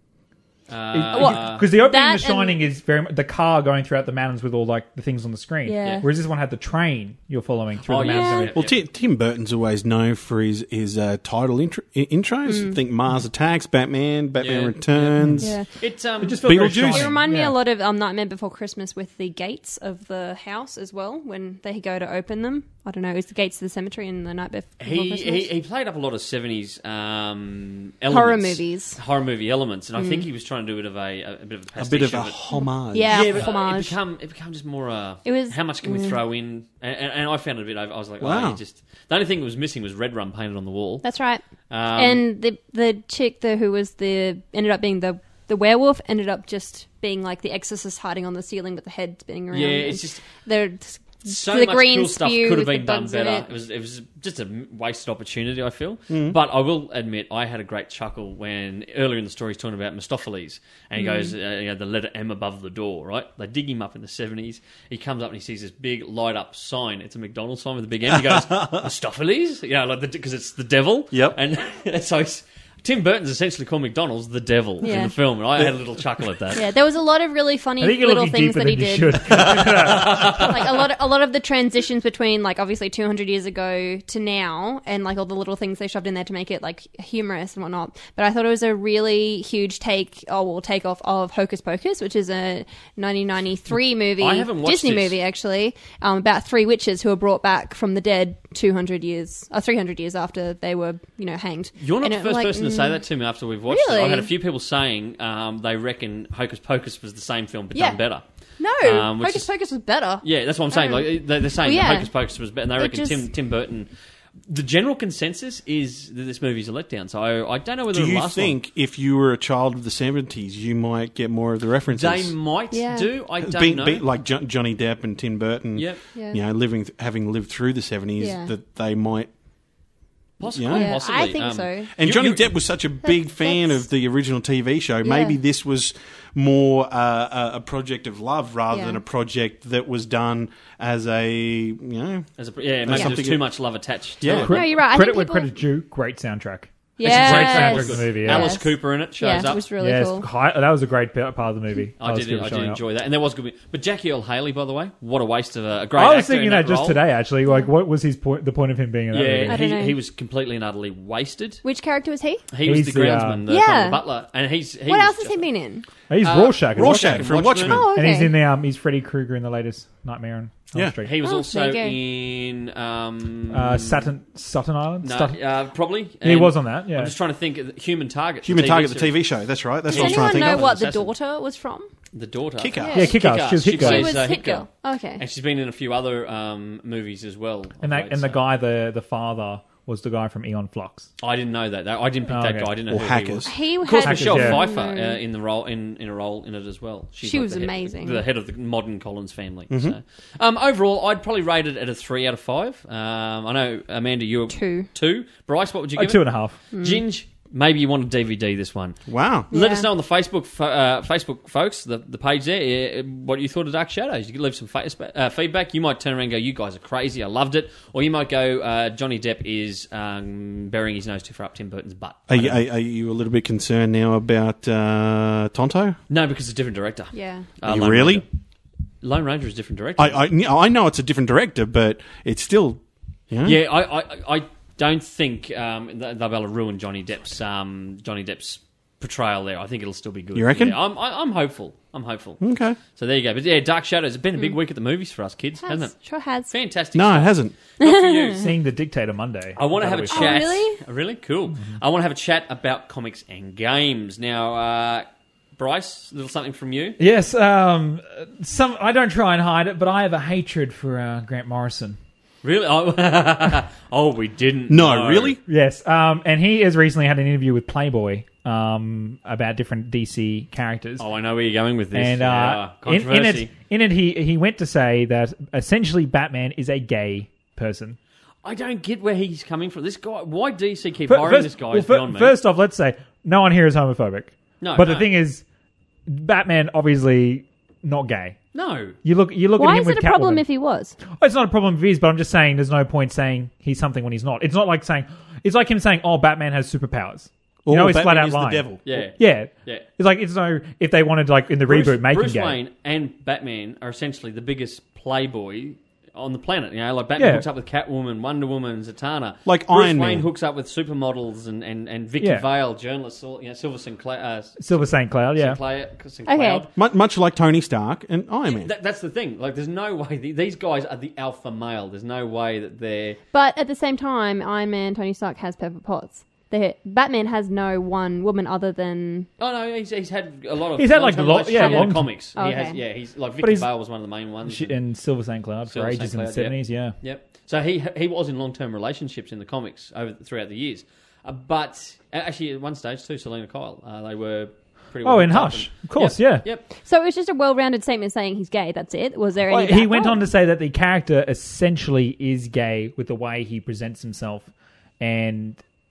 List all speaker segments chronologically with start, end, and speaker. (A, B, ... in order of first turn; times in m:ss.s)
0:00.7-0:01.6 A
0:00.9-0:08.6 B
0:01.1-0:02.6 C
0:05.6-0:06.0 C
0:07.8-0:08.8 A
0:08.0-0:08.5 C
0:08.5-0:15.5 D
0:12.4-0:12.8 C
0:14.4-0:16.6 A
0:15.2-0:15.5 B
0:15.4-0:15.7 C
0:16.2-0:17.6 B
0:16.4-0:17.2 D
0:16.8-0:25.5 C
0:24.8-0:32.4 A
0:28.1-0:29.0 C
0:30.0-0:30.2 C
0:31.8-0:33.4 D
0:32.5-0:34.0 C
0:33.1-0:41.0 A
0:35.2-0:36.2 C
0:38.2-0:38.6 D
0:41.0-0:41.4 C
0:41.7-0:42.2 A
0:41.9-0:53.5 C
0:49.5-0:50.3 A
0:51.2-1:16.6 A
0:56.1-0:56.4 D
1:01.0-1:01.3 C
1:08.1-1:08.9 D
1:11.1-1:11.4 D
1:14.8-1:15.1 C
1:16.5-1:43.0 C
1:17.8-1:20.4 B
1:19.7-1:20.8 A
1:34.2-1:35.2 A
1:41.8-1:48.2 A
1:43.7-1:44.3 C
1:47.7-1:48.0 C
1:48.6-1:52.1 C
1:48.8-1:49.5 A
1:50.2-1:53.9 A
1:52.8-1:53.2 C
1:54.5-1:58.6 A
1:57.9-2:02.3 D
2:01.9-2:04.0 A
2:02.7-2:03.1 C
2:03.4-2:09.3 D
2:05.7-2:06.0 A
2:08.2-2:08.5 C
2:10.4-2:12.5 A
2:10.5-2:11.3 D
2:10.7-2:11.9 C
2:12.0-2:22.2 D
2:13.0-2:13.8 C
2:15.0-2:15.4 C
2:18.7-2:19.0 C
2:22.4-2:24.7 A
2:22.8-2:23.5 D
2:22.9-2:23.2 C
2:24.2-2:24.6 D
2:24.3-2:28.6 B
2:24.4-2:25.5 C
2:27.0-2:30.3 C
2:27.0-2:29.6 A
2:29.8-2:32.8 B
2:32.0-2:37.0 A
2:36.0-2:39.6 B
2:39.1-2:41.6 A
2:39.5-2:40.0 C
2:41.6-2:42.4 C
2:42.5-2:45.4 A
2:42.6-2:43.4 B
2:43.5-2:44.0 C
2:44.9-2:45.8 C
2:46.1-2:47.4 B
2:46.2-2:47.8 A
2:46.7-2:47.9 D
2:47.6-2:48.3 C
2:47.9-2:51.1 B
2:51.0-2:54.1 A
2:51.2-2:52.0 C
2:53.5-2:55.4 B
2:55.0-2:59.2 A
2:56.2-2:57.1 B
2:58.4-3:00.7 D
2:59.9-3:01.1 A
2:59.9-3:01.9 C
3:02.1-3:08.4 A
3:02.6-3:03.1 D
3:02.8-3:03.1 C
3:02.9-3:04.2 B
3:03.7-3:05.2 C
3:07.8-3:11.1 B
3:11.2-3:42.6 A
3:12.3-3:12.7 B
3:12.9-3:13.5 D
3:13.4-3:15.2 C
3:14.0-3:14.7 B
3:17.2-3:18.2 C
3:19.7-3:20.0 D
3:24.5-3:24.9 C
3:26.0-3:26.6 B
3:26.7-3:27.0 C
3:29.1-3:29.5 D
3:29.5-3:29.9 C
3:42.3-3:46.0 D
3:46.1-3:48.2 A
3:47.1-3:47.5 C
3:47.6-3:48.2 D
3:49.0-3:50.2 A
3:50.0-3:53.6 D
3:53.4-4:02.4 A
4:00.3-4:00.8 D
4:02.4-4:02.8 D
4:02.9-4:06.0 A
4:05.6-4:06.5 C
4:06.5-4:08.5 A
4:06.9-4:07.6 D
4:07.8-4:08.5 C
4:08.4-4:10.5 B
4:09.6-4:15.0 A
4:10.1-4:10.8 C
4:15.6-4:17.0 A
4:17.0-4:22.0 B
4:22.4-4:25.4 A
4:24.7-4:25.4 D
4:25.5-4:31.0 B
4:31.0-4:33.5 A
4:31.9-4:38.0 B
4:38.4-4:42.4 A
4:41.1-4:45.4 B
4:44.6-4:45.1 A
4:46.1-4:48.4 B
4:48.5-4:49.0 A
4:49.0-4:50.4 B
4:49.6-4:51.0 C
4:51.1-5:02.6 B
4:57.6-4:58.8 D
4:58.8-4:59.8 A
5:01.6-5:14.7 A
5:07.2-5:07.4 B
5:09.4-5:10.3 D
5:12.2-5:12.4 B
5:14.6-5:15.6 B
5:15.3-5:16.7 A
5:16.2-5:16.6 C
5:16.7-5:18.7 D
5:18.4-5:23.2 A
5:23.3-5:29.3 C
5:29.4-5:34.7 A
5:30.8-5:32.1 B
5:31.5-5:32.8 C
5:33.4-5:33.7 B
5:34.4-5:37.0 B
5:35.7-5:46.6 A
5:45.0-5:46.4 B
5:46.7-5:50.2 C
5:49.5-5:54.5 B
5:55.0-5:55.6 B